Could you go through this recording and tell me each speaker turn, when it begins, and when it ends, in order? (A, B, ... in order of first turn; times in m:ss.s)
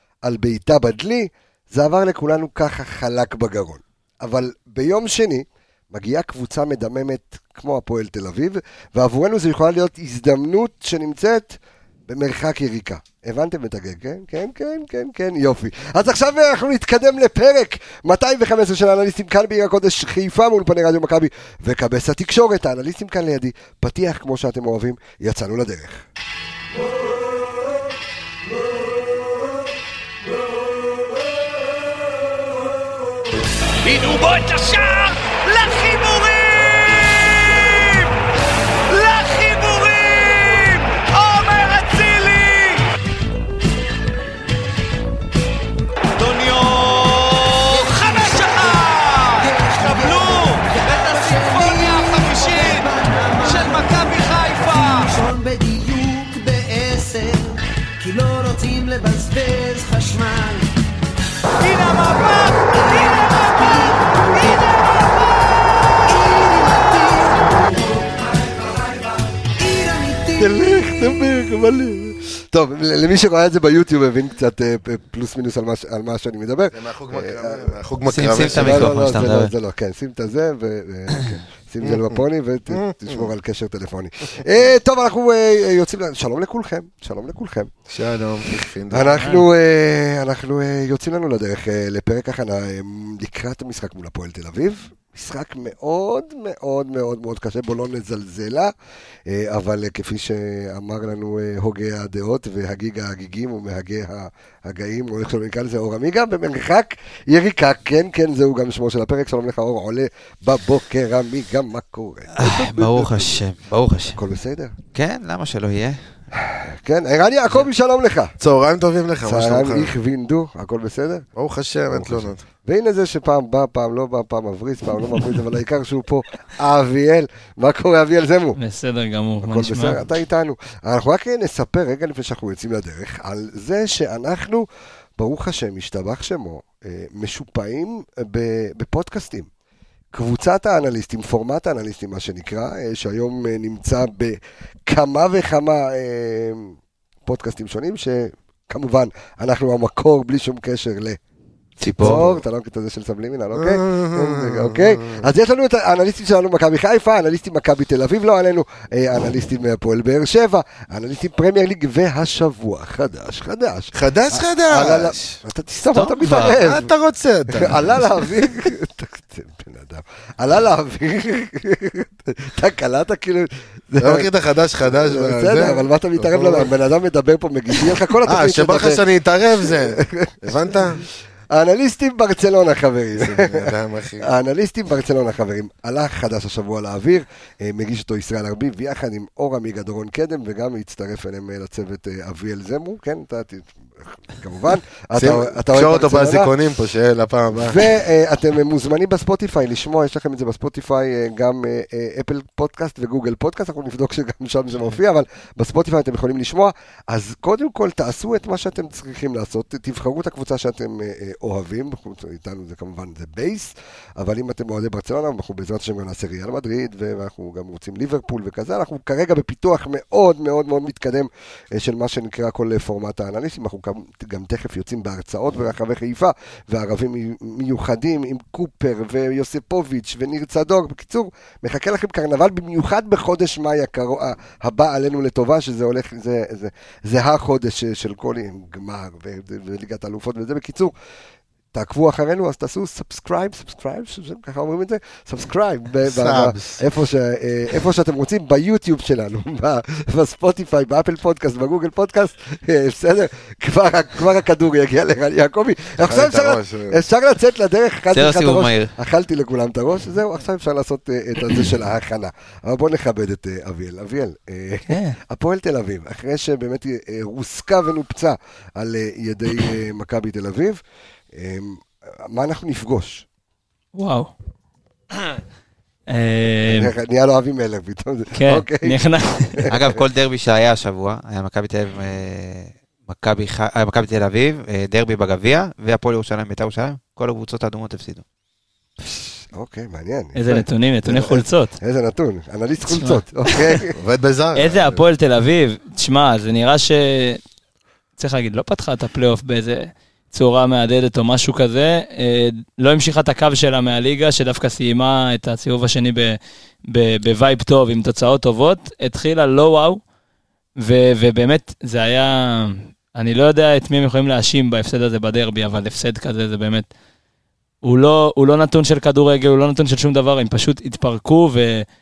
0:00.2-0:26.0 A
0:33.8-0:38.1 B
0:38.9-0:42.9 B
0:46.2-0:55.2 B
0:47.9-0:48.8 C
0:49.4-0:53.9 C
0:54.7-1:00.8 C
1:01.6-1:05.9 B
1:02.8-1:04.8 C
1:06.1-1:08.3 C
1:09.6-1:10.4 C
1:10.3-1:17.8 A
1:16.7-1:19.2 D
1:18.1-1:19.5 E
1:18.3-1:27.7 A
1:21.8-1:23.3 D
1:27.9-1:29.3 D
1:28.9-1:38.7 A
1:29.2-1:29.4 F
1:39.3-1:53.4 A
1:52.4-1:54.2 E
1:54.1-1:54.7 A
1:54.9-1:56.0 E
1:56.4-1:58.4 A
1:58.4-1:59.9 D
1:59.2-2:01.2 A
2:01.4-2:02.4 D
2:01.9-2:08.6 A
2:08.6-2:10.0 F
2:09.4-2:14.7 A
2:15.2-2:19.5 A
2:20.1-2:26.8 A
2:27.3-2:31.2 A
2:31.8-2:32.2 E
2:31.8-2:46.9 A
2:32.0-2:32.4 D
2:33.5-2:35.2 D
2:43.9-2:45.4 D
2:46.0-2:46.6 E
2:46.3-2:48.4 D
2:47.5-2:54.3 A
2:54.0-2:56.7 D
2:54.8-2:59.0 A
2:58.2-3:01.0 D
2:59.6-3:00.8 A
3:01.5-3:16.5 A
3:03.2-3:04.3 D
3:15.2-3:17.9 D
3:17.5-4:00.9 A
4:01.7-4:30.8 A
4:06.1-4:06.8 D
4:16.0-4:17.0 D
4:18.1-4:18.9 E
4:24.9-4:25.2 F
4:31.3-4:33.3 A
4:34.0-4:34.3 F
4:36.1-4:36.9 F
4:36.7-4:39.0 A
4:38.4-4:39.7 F
4:39.7-4:48.2 E
4:49.1-4:54.0 A
4:50.4-4:51.7 F
4:52.9-4:53.8 F
4:54.0-4:55.0 D
4:54.6-4:57.4 F
4:58.2-5:06.4 F
5:06.9-5:10.0 F
5:10.8-5:16.9 F
5:17.8-5:21.9 F